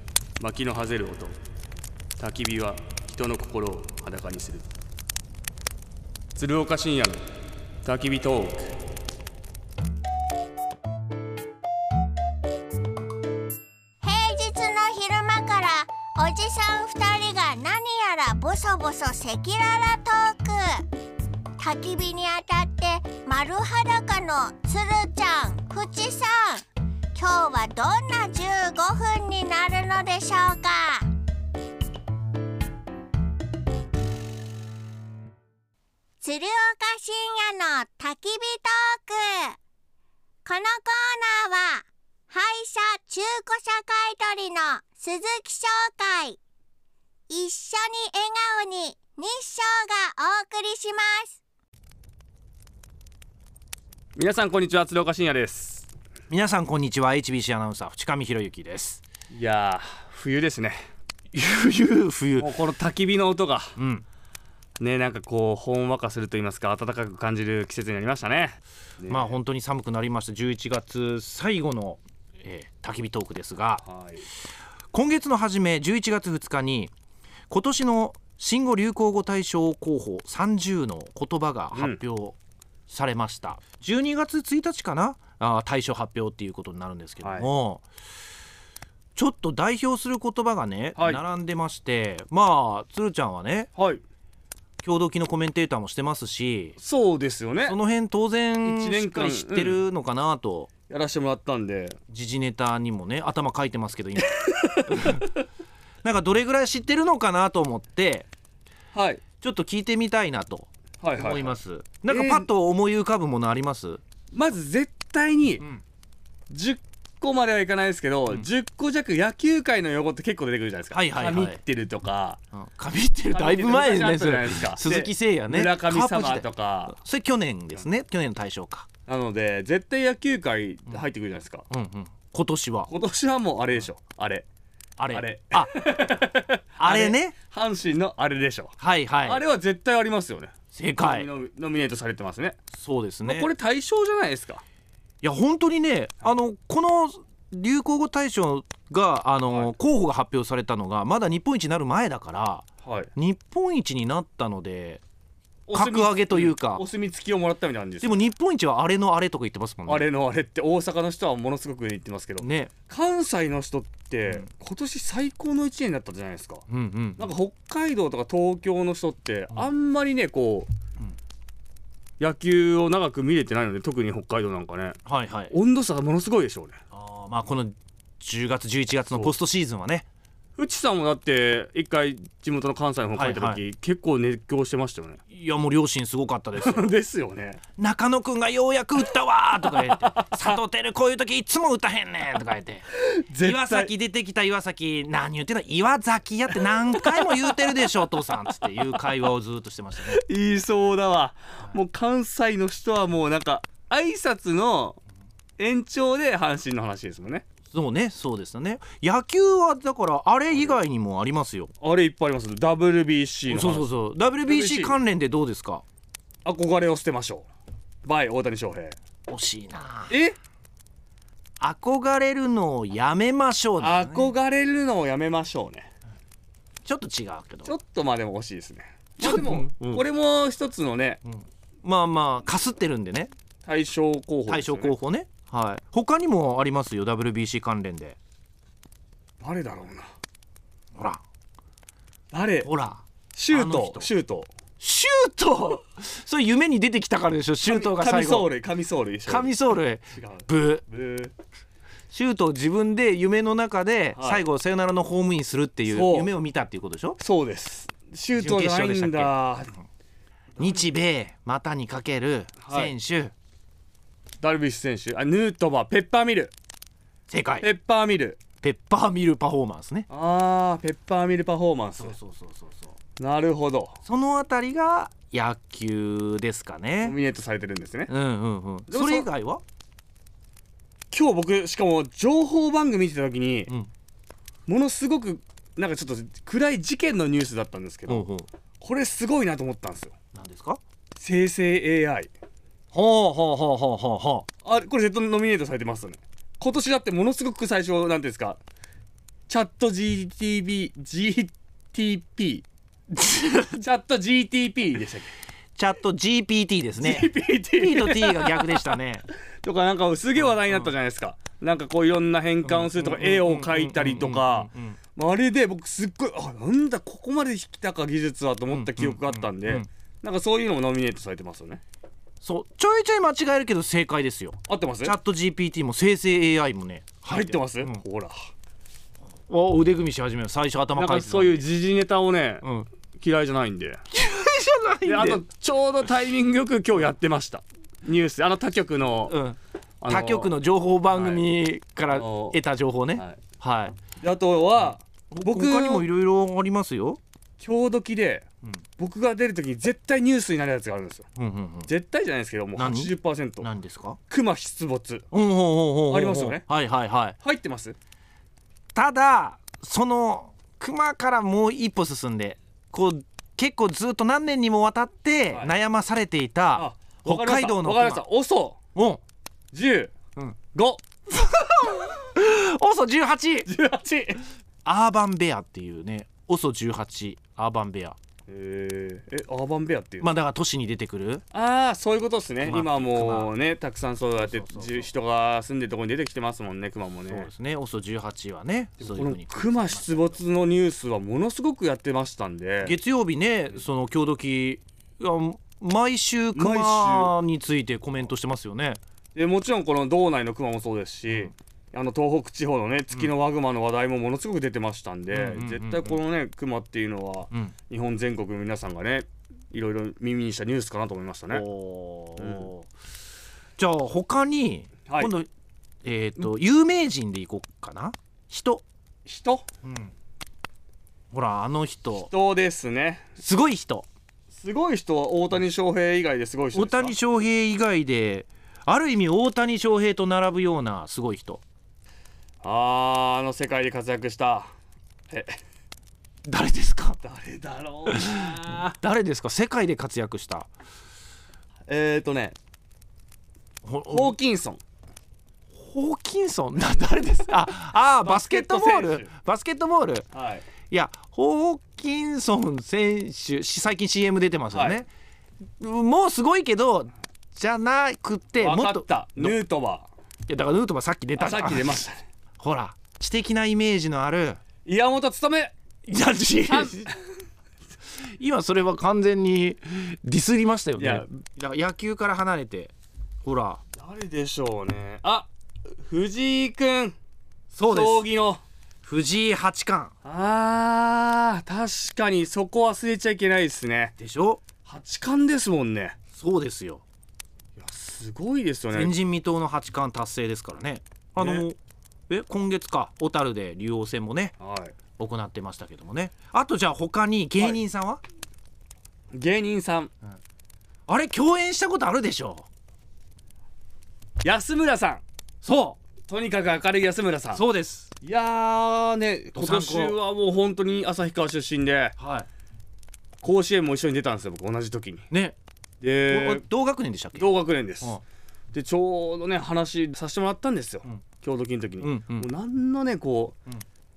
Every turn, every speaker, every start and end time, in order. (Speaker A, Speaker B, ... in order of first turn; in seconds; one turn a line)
Speaker A: 0.4-1.4
Speaker A: 2.2-4.7
Speaker A: 6.4-7.2
Speaker A: 7.8-8.7
Speaker B: 14.0-20.9
Speaker B: 21.6-31.1
Speaker B: 36.2-39.6
Speaker B: 40.5-46.4
Speaker B: 47.3-51.4
Speaker A: 54.2-55.9
Speaker C: 56.3-59.0
Speaker A: 59.3-60.9
Speaker C: 61.3-62.5
Speaker A: 62.4-63.8
Speaker C: 63.8-64.0
Speaker A: 64.8-69.3
Speaker C: 69.1-73.8
Speaker A: 73.8-74.3
Speaker C: 74.9-76.9
Speaker C: 77.5-82.4
Speaker A: 81.7-82.0
Speaker C: 82.9-87.8
Speaker A: 87.2-87.5
Speaker C: 89.2-93.7
Speaker A: 91.0-91.2
Speaker A: 93.8-94.0
Speaker C: 94.8-96.8
Speaker A: 96.8-97.8
Speaker C: 97.6-100.7
Speaker A: 98.6-99.8
Speaker A: 100.9-102.0
Speaker C: 102.1-105.3
Speaker A: 104.4-105.4
Speaker C: 106.0-108.3
Speaker A: 108.9-109.2
Speaker C: 109.4-114.0
Speaker A: 111.0-112.5
Speaker A: 114.3-115.7
Speaker A: 116.5-122.4
Speaker C: 120.9-121.6
Speaker C: 122.5-128.9
Speaker A: 123.3-127.0
Speaker A: 129.1-131.7
Speaker C: 131.7-132.9
Speaker A: 132.9-134.5
Speaker C: 135.0-135.7
Speaker A: 135.1-142.6
Speaker C: 136.8-137.3
Speaker C: 138.8-139.4
Speaker C: 140.7-141.3
Speaker C: 142.7-143.5
Speaker A: 143.2-144.6
Speaker C: 145.2-155.0
Speaker A: 152.8-153.1
Speaker A: 155.7-158.3
Speaker C: 155.7-156.8
Speaker C: 158.0-160.1
Speaker A: 159.9-166.7
Speaker C: 162.4-162.7
Speaker C: 166.7-167.3
Speaker A: 167.2-170.7
Speaker A: 172.2-175.0
Speaker C: 175.1-175.5
Speaker A: 175.5-176.8
Speaker C: 176.9-180.1
Speaker A: 180.6-185.2
Speaker C: 183.1-183.6
Speaker C: 185.3-186.9
Speaker A: 186.6-187.6
Speaker C: 187.8-200.2
Speaker A: 189.8-190.5
Speaker A: 192.9-193.9
Speaker A: 196.7-197.9
Speaker A: 200.0-205.0
Speaker A: 205.6-207.5
Speaker C: 207.7-211.7
Speaker A: 210.5-210.8
Speaker A: 211.8-215.0
Speaker C: 213.5-215.8
Speaker A: 216.4-217.5
Speaker A: 218.1-219.0
Speaker C: 219.3-220.2
Speaker A: 220.1-220.4
Speaker C: 221.6-224.3
Speaker A: 223.8-225.9
Speaker C: 226.8-227.8
Speaker A: 227.7-231.2
Speaker C: 229.2-230.0
Speaker C: 231.2-233.3
Speaker A: 233.7-234.9
Speaker C: 234.5-238.2
Speaker A: 239.4-240.1
Speaker C: 240.9-241.2
Speaker A: 242.3-242.7
Speaker C: 242.6-244.1
Speaker A: 243.3-244.5
Speaker C: 244.8-248.5
Speaker A: 247.7-251.3
Speaker C: 249.3-250.8
Speaker C: 252.1-257.2
Speaker A: 254.2-254.4
Speaker A: 255.9-256.3
Speaker A: 257.2-259.8
Speaker C: 258.4-259.3
Speaker C: 260.6-263.3
Speaker A: 260.6-260.9
Speaker A: 262.6-262.9
Speaker A: 264.4-266.5
Speaker C: 267.3-267.7
Speaker A: 267.6-268.4
Speaker C: 268.6-270.1
Speaker A: 270.1-272.2
Speaker C: 272.0-272.9
Speaker A: 273.2-274.0
Speaker C: 274.1-277.2
Speaker A: 277.0-278.1
Speaker C: 278.1-279.6
Speaker A: 278.9-279.3
Speaker A: 281.1-283.7
Speaker A: 284.7-288.2
Speaker C: 288.1-288.5
Speaker A: 288.8-290.1
Speaker C: 290.3-290.8
Speaker A: 291.2-292.3
Speaker C: 292.9-294.5
Speaker A: 294.6-298.6
Speaker A: 299.5-302.6
Speaker C: 303.1-303.8
Speaker A: 303.8-305.3
Speaker C: 305.8-309.2
Speaker A: 307.0-308.9
Speaker A: 309.6-321.8
Speaker C: 310.4-310.9
Speaker C: 312.6-315.0
Speaker C: 318.7-319.9
Speaker C: 322.4-328.0
Speaker A: 324.7-325.1
Speaker A: 327.3-328.5
Speaker C: 329.5-331.6
Speaker A: 331.0-334.0
Speaker C: 332.6-332.9
Speaker C: 334.1-335.4
Speaker A: 335.1-339.4
Speaker C: 339.3-344.0
Speaker A: 340.0-340.6
Speaker A: 341.1-341.4
Speaker A: 342.1-342.6
Speaker A: 343.1-343.4
Speaker A: 344.2-346.1
Speaker C: 345.3-347.2
Speaker A: 347.6-348.5
Speaker A: 349.0-351.3
Speaker C: 351.4-351.9
Speaker A: 351.9-353.7
Speaker C: 352.8-354.2
Speaker A: 354.3-355.2
Speaker C: 355.3-357.4
Speaker A: 356.1-356.6
Speaker A: 357.4-358.0
Speaker C: 358.9-368.2
Speaker A: 365.5-365.8
Speaker A: 366.8-368.8
Speaker C: 368.9-369.2
Speaker A: 369.7-370.1
Speaker A: 370.7-371.0
Speaker C: 371.8-373.7
Speaker A: 373.7-374.4
Speaker C: 374.9-378.2
Speaker A: 378.5-380.3
Speaker C: 380.2-381.4
Speaker A: 381.5-387.5
Speaker C: 382.6-383.5
Speaker C: 384.4-385.1
Speaker C: 387.3-390.4
Speaker A: 389.0-392.9
Speaker C: 392.8-399.0
Speaker A: 396.6-397.3
Speaker A: 399.4-411.7
Speaker C: 401.3-401.5
Speaker C: 405.3-406.2
Speaker C: 411.5-412.9
Speaker A: 412.4-412.7
Speaker C: 413.8-415.5
Speaker A: 415.1-415.3
Speaker C: 416.0-418.8
Speaker A: 419.3-419.6
Speaker C: 419.8-420.1
Speaker C: 421.3-422.3
Speaker A: 422.3-423.3
Speaker C: 423.4-424.1
Speaker A: 424.5-427.2
Speaker C: 426.7-431.6
Speaker A: 432.6-434.7
Speaker A: 435.3-435.6
Speaker C: 436.5-437.2
Speaker A: 437.2-438.9
Speaker C: 438.1-440.7
Speaker A: 441.9-442.6
Speaker C: 443.9-444.4
Speaker A: 444.1-444.8
Speaker C: 445.7-450.3
Speaker A: 448.2-449.3
Speaker A: 450.3-450.7
Speaker C: 450.9-455.1
Speaker A: 454.7-455.0
Speaker C: 455.8-459.6
Speaker A: 458.6-460.1
Speaker C: 460.5-462.0
Speaker A: 461.4-462.2
Speaker C: 462.6-464.6
Speaker A: 464.9-465.7
Speaker C: 466.1-467.0
Speaker A: 466.6-467.2
Speaker C: 468.2-472.9
Speaker A: 471.0-471.3
Speaker C: 473.4-473.8
Speaker A: 474.0-477.2
Speaker C: 477.7-478.2
Speaker A: 477.8-478.6
Speaker C: 479.0-480.1
Speaker A: 480.2-484.1
Speaker C: 484.2-484.6
Speaker A: 484.8-486.2
Speaker C: 486.3-487.0
Speaker A: 487.8-489.2
Speaker C: 488.9-491.8
Speaker A: 491.4-491.7
Speaker C: 492.3-494.6
Speaker A: 494.6-494.9
Speaker C: 495.2-498.2
Speaker A: 497.6-497.8
Speaker A: 499.3-500.1
Speaker C: 501.1-502.7
Speaker A: 504.4-505.2
Speaker C: 505.6-506.0
Speaker A: 506.3-507.6
Speaker C: 507.5-508.1
Speaker A: 508.2-512.2
Speaker C: 509.6-510.2
Speaker C: 512.2-512.5
Speaker A: 513.4-515.3
Speaker C: 515.3-515.6
Speaker A: 516.0-516.6
Speaker C: 516.3-518.2
Speaker A: 517.4-518.2
Speaker A: 518.7-523.6
Speaker C: 522.0-522.5